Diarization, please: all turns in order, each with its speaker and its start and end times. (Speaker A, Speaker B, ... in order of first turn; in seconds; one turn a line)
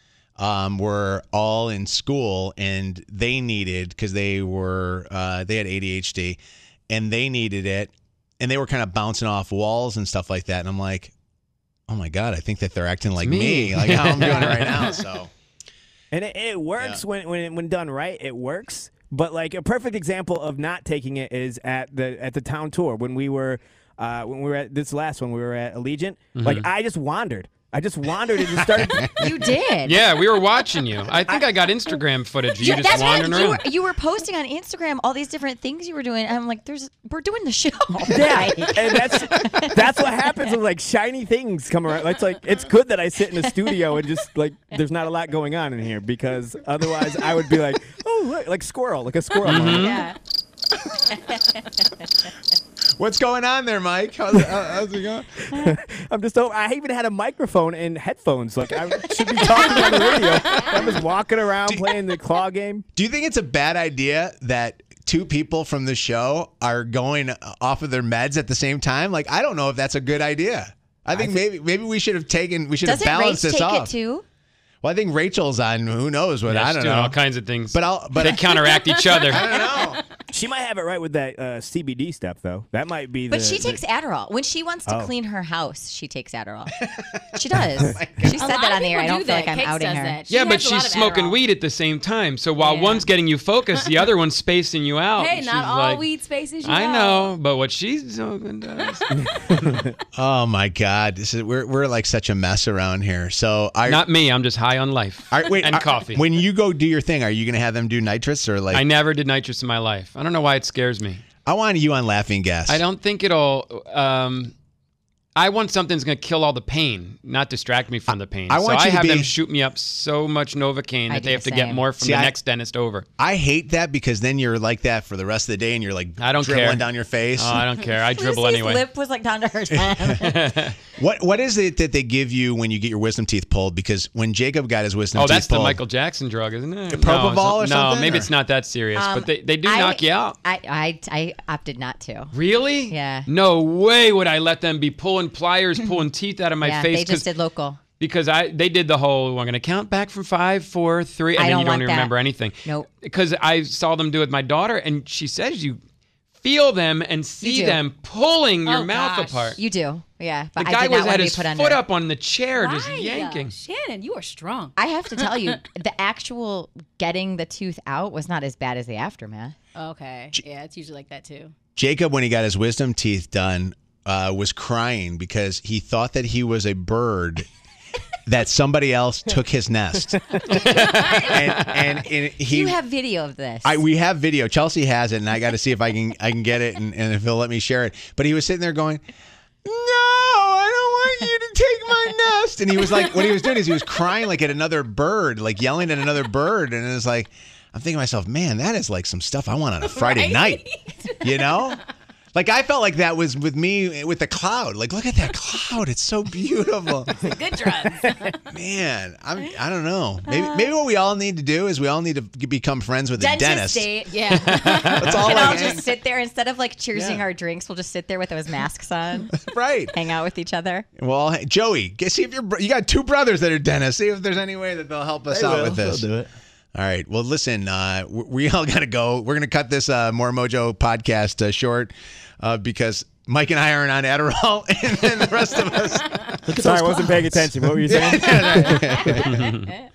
Speaker A: 0.4-11.1
Speaker A: 11.9-15.3
Speaker B: 13.2-14.9
Speaker C: 16.1-29.4
Speaker B: 26.3-26.7
Speaker D: 29.2-30.0
Speaker B: 29.8-33.7
Speaker D: 32.6-39.8
Speaker C: 38.1-49.9
Speaker B: 49.4-50.1
Speaker D: 49.6-50.2
Speaker D: 51.1-51.6
Speaker A: 53.0-55.3
Speaker C: 55.4-62.8
Speaker A: 61.6-62.0
Speaker A: 63.0-73.9
Speaker C: 71.1-71.4
Speaker D: 72.8-74.2
Speaker A: 74.8-77.2
Speaker B: 76.5-79.4
Speaker A: 77.7-78.6
Speaker E: 78.8-80.0
Speaker A: 79.2-80.0
Speaker C: 80.3-83.8
Speaker D: 83.3-86.7
Speaker C: 84.8-85.1
Speaker A: 86.7-87.2
Speaker D: 87.3-90.2
Speaker A: 87.8-88.5
Speaker E: 88.3-91.4
Speaker B: 90.3-96.0
Speaker E: 92.6-93.1
Speaker E: 95.2-97.3
Speaker B: 96.6-99.7
Speaker C: 99.1-99.9
Speaker A: 100.2-104.0
Speaker B: 103.8-106.2
Speaker A: 105.3-108.8
Speaker B: 108.7-111.2
Speaker A: 111.5-112.8
Speaker B: 112.7-114.5
Speaker B: 115.3-123.0
Speaker A: 118.5-119.3
Speaker D: 121.1-121.8
Speaker A: 122.0-122.3
Speaker A: 123.2-127.6
Speaker B: 126.2-128.8
Speaker D: 128.0-130.5
Speaker A: 129.7-130.2
Speaker B: 130.1-130.7
Speaker A: 130.9-135.8
Speaker B: 135.1-140.4
Speaker A: 136.9-138.3
Speaker D: 138.9-142.3
Speaker B: 142.3-147.3
Speaker D: 142.9-143.3
Speaker D: 146.6-147.8
Speaker B: 148.0-155.8
Speaker D: 151.3-152.1
Speaker B: 156.4-159.6
Speaker D: 157.4-157.8
Speaker E: 158.7-159.5
Speaker D: 159.6-161.8
Speaker B: 160.6-163.5
Speaker E: 162.6-165.6
Speaker D: 164.8-169.6
Speaker E: 169.7-171.5
Speaker A: 171.8-177.5
Speaker A: 178.3-180.2
Speaker B: 180.5-181.7
Speaker A: 181.1-182.8
Speaker D: 182.4-183.8
Speaker A: 183.6-189.0
Speaker A: 189.6-200.7
Speaker E: 199.8-201.2
Speaker A: 201.2-201.8
Speaker A: 202.3-207.3
Speaker E: 207.2-208.3
Speaker A: 208.5-213.9
Speaker D: 210.3-210.7
Speaker D: 213.2-219.3
Speaker E: 214.1-215.1
Speaker B: 214.4-215.3
Speaker A: 214.7-215.8
Speaker F: 215.0-215.7
Speaker A: 216.9-217.2
Speaker A: 219.3-219.9
Speaker D: 219.9-220.8
Speaker A: 221.0-226.1
Speaker F: 225.3-226.3
Speaker A: 226.7-239.5
Speaker F: 236.4-237.4
Speaker C: 236.7-238.8
Speaker D: 238.9-239.5
Speaker B: 239.2-239.7